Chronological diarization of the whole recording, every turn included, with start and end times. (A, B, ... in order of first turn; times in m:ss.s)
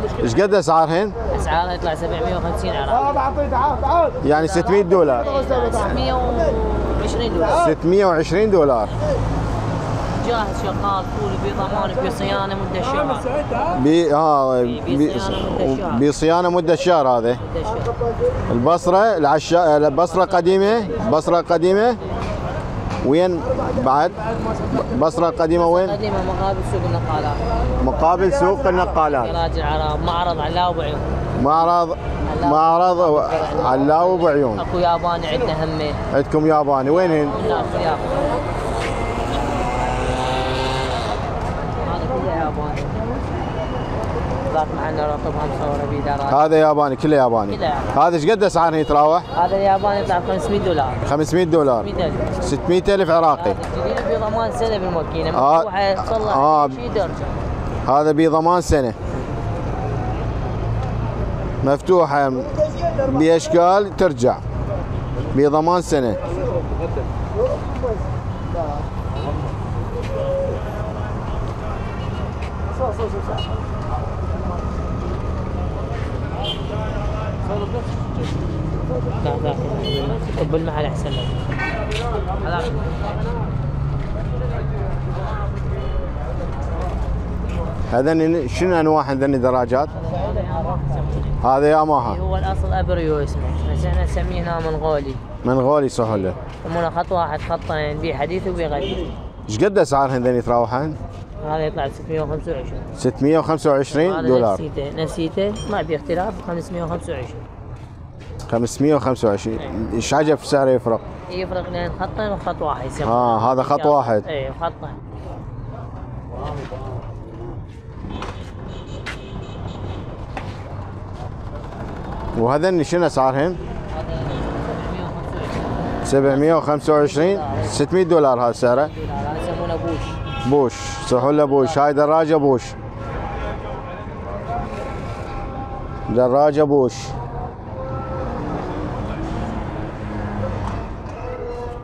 0:00.2-0:01.2 A
0:01.3-0:03.7 B
0:04.2-0:05.4 A
0:04.3-0:07.7 B
0:07.5-0:08.9 A
0:10.2-0:13.4 B
0:13.7-0:17.4 A
0:14.6-0:16.1 B
0:17.5-0:17.9 B
0:18.5-0:22.0 A
0:23.0-0:26.0 A
0:25.6-0:27.4 B
0:27.8-0:29.4 A
0:29.0-0:31.2 B
0:31.4-0:34.6 A
0:32.2-0:36.0 B
0:36.1-0:37.4 A
0:37.2-0:38.4 B
0:41.8-0:43.0 B
0:44.5-0:46.5 B
0:46.3-0:49.3 A
0:47.5-0:47.9 B
0:49.3-0:51.0 B
0:51.0-0:53.6 A
0:51.8-0:52.3 B
0:53.3-0:57.4 B
0:55.3-0:56.8 A
0:57.8-0:59.0 A
1:01.6-1:04.4 A
1:05.3-1:06.2 A
1:19.2-1:21.4 B
1:22.4-1:22.8 B
1:27.9-1:29.9 A
1:30.0-1:31.4 B
1:31.4-1:32.2 A
1:32.0-1:35.2 B
1:35.4-1:36.4 A
1:36.2-1:39.1 B
1:39.5-1:41.0 A
1:41.4-1:42.9 B
1:43.0-1:44.6 A
1:43.9-1:47.4 B
1:48.5-1:51.0 A
1:51.3-1:55.0 B
1:53.0-1:54.2 A
2:02.4-2:03.6 A
2:03.9-2:07.8 B
2:06.0-2:08.9 A
2:08.9-2:10.2 B
2:10.4-2:12.7 A
2:11.1-2:12.0 B
2:16.1-2:17.1 A